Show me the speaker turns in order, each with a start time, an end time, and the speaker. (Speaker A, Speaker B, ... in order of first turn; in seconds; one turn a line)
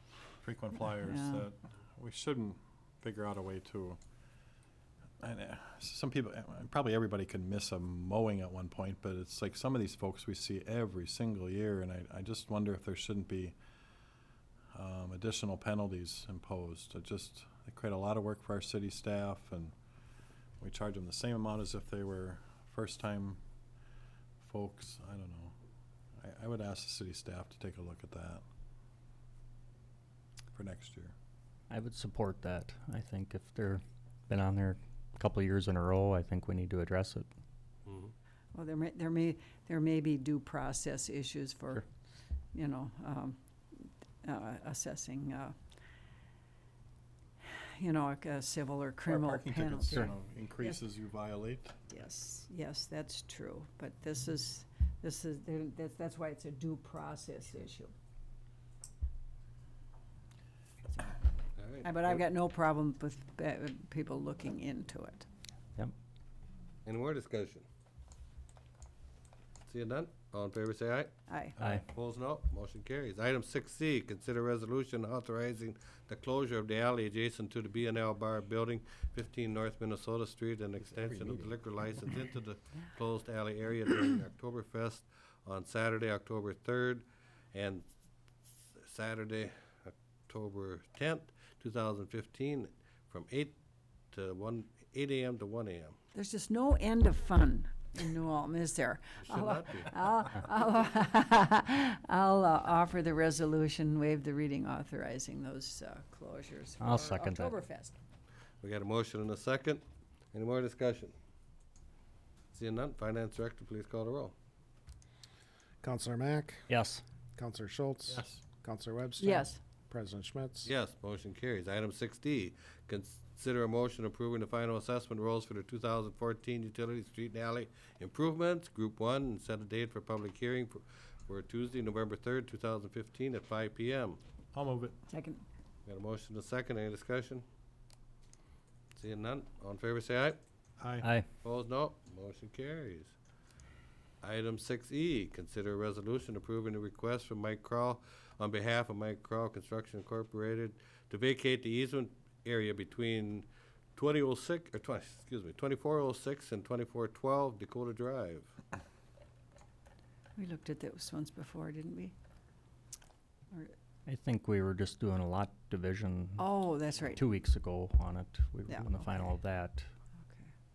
Speaker A: 0.4-4.0
Speaker B: 0.9-1.5
Speaker A: 5.2-13.6
Speaker A: 14.7-19.7
Speaker A: 20.6-23.4
Speaker A: 24.4-25.6
Speaker A: 26.2-28.4
Speaker A: 30.5-31.1
Speaker C: 31.7-37.3
Speaker D: 37.9-38.1
Speaker B: 38.5-41.9
Speaker B: 42.5-45.5
Speaker B: 47.4-50.8
Speaker A: 49.1-51.8
Speaker B: 51.9-57.9
Speaker D: 61.6-62.2
Speaker B: 61.8-65.3
Speaker D: 66.9-67.7
Speaker D: 69.7-87.9
Speaker B: 71.3-71.6
Speaker D: 88.8-93.6
Speaker D: 94.1-96.0
Speaker B: 96.1-108.0
Speaker D: 99.2-100.0
Speaker C: 106.8-107.5
Speaker D: 108.6-111.2
Speaker D: 112.5-114.3
Speaker E: 115.8-116.7
Speaker C: 116.7-117.0
Speaker E: 117.4-120.7
Speaker A: 118.1-118.4
Speaker B: 119.2-119.6
Speaker D: 120.7-134.2
Speaker A: 134.5-135.0
Speaker B: 135.1-135.4
Speaker D: 135.9-137.4
Speaker D: 139.0-140.4
Speaker A: 140.8-141.1
Speaker C: 141.0-141.3
Speaker D: 141.4-143.1
Speaker D: 144.2-158.5
Speaker B: 160.4-162.2
Speaker C: 164.1-169.9
Speaker B: 166.4-167.2
Speaker B: 168.7-169.3
Speaker B: 170.2-170.5